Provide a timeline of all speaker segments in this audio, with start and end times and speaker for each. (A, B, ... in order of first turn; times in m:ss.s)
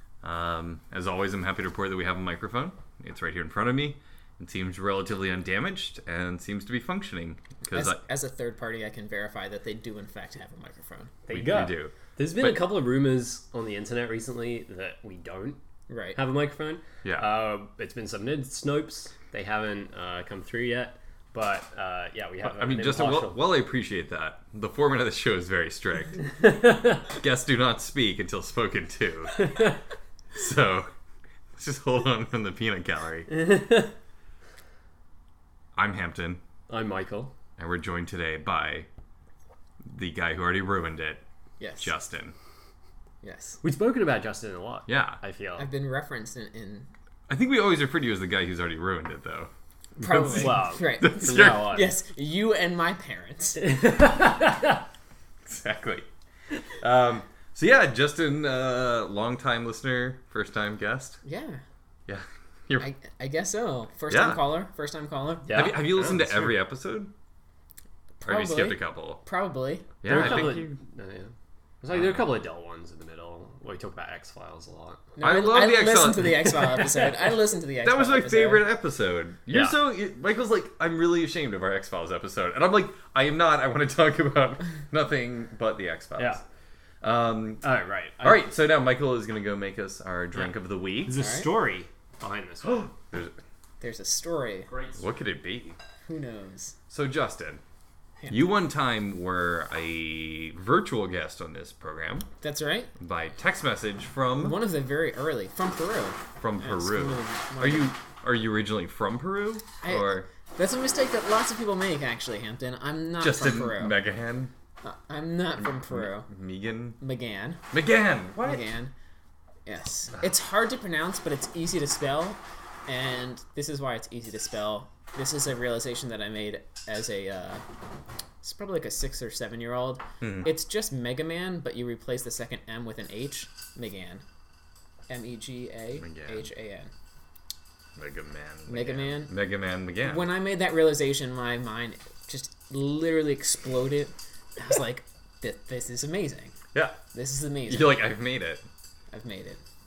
0:00.2-0:08.0 A
0:07.7-0:11.1 B
0:11.3-0:15.6 C
0:11.3-0:12.6 A
0:15.9-0:16.2 B
0:16.2-0:23.4 C
0:17.0-0:17.4 A
0:22.4-0:26.3 A
0:26.4-0:27.1 C
0:27.1-0:29.5 A
0:29.4-0:29.8 C
0:30.3-0:30.9 A
0:31.6-0:33.3 A
0:33.3-0:33.9 C
0:35.8-0:36.4 A
0:36.7-0:37.3 C
0:37.6-0:38.9 A
0:39.9-0:41.2 A
0:41.6-0:41.9 B
0:41.8-0:42.3 A
0:43.2-0:43.6 B
0:43.6-0:45.7 C
0:44.9-0:45.2 A
0:45.6-0:46.9 B
0:47.3-0:49.5 A
0:50.0-0:53.8 B
0:50.0-0:51.9 C
0:50.1-0:51.8 A
0:53.6-0:54.8 C
0:55.5-0:56.1 A
0:56.8-1:01.2 A
1:01.2-1:01.6 B
1:02.1-1:02.9 A
1:02.8-1:05.7 B
1:04.1-1:04.4 A
1:05.5-1:06.6 C
1:05.5-1:07.1 A
1:08.2-1:10.5 B
1:08.2-1:09.2 A
1:10.0-1:10.8 A
1:10.0-1:15.2 C
1:11.9-1:12.2 A
1:15.2-1:18.7 B
1:15.2-1:16.6 A
1:16.7-1:17.1 C
1:17.8-1:26.4 A
1:19.5-1:19.8 C
1:27.0-1:27.6 A
1:27.6-1:28.5 C
1:28.2-1:31.1 A
1:31.1-1:32.9 C
1:31.2-1:31.5 B
1:32.6-1:33.3 A
1:33.8-1:34.7 B
1:34.7-1:35.1 C
1:35.0-1:35.8 A
1:36.1-1:36.8 B
1:36.9-1:37.6 A
1:38.2-1:38.5 B
1:38.3-1:42.3 A
1:42.4-1:42.9 B
1:43.0-1:44.6 A
1:44.4-1:47.9 B
1:46.4-1:50.3 A
1:49.8-1:54.0 B
1:53.2-1:54.5 A
1:54.8-1:56.3 B
1:55.6-1:57.0 A
1:57.0-1:57.6 B
1:57.7-1:58.6 A
1:58.4-1:58.9 B
1:59.7-2:07.7 B
2:08.4-2:14.2 B
2:10.2-2:10.5 A
2:15.1-2:16.9 B
2:16.0-2:16.5 A
2:18.0-2:20.3 A
2:18.7-2:19.4 B
2:20.0-2:26.6 B
2:26.7-2:27.0 A
2:27.1-2:28.1 B
2:27.7-2:28.7 A
2:29.1-2:29.6 B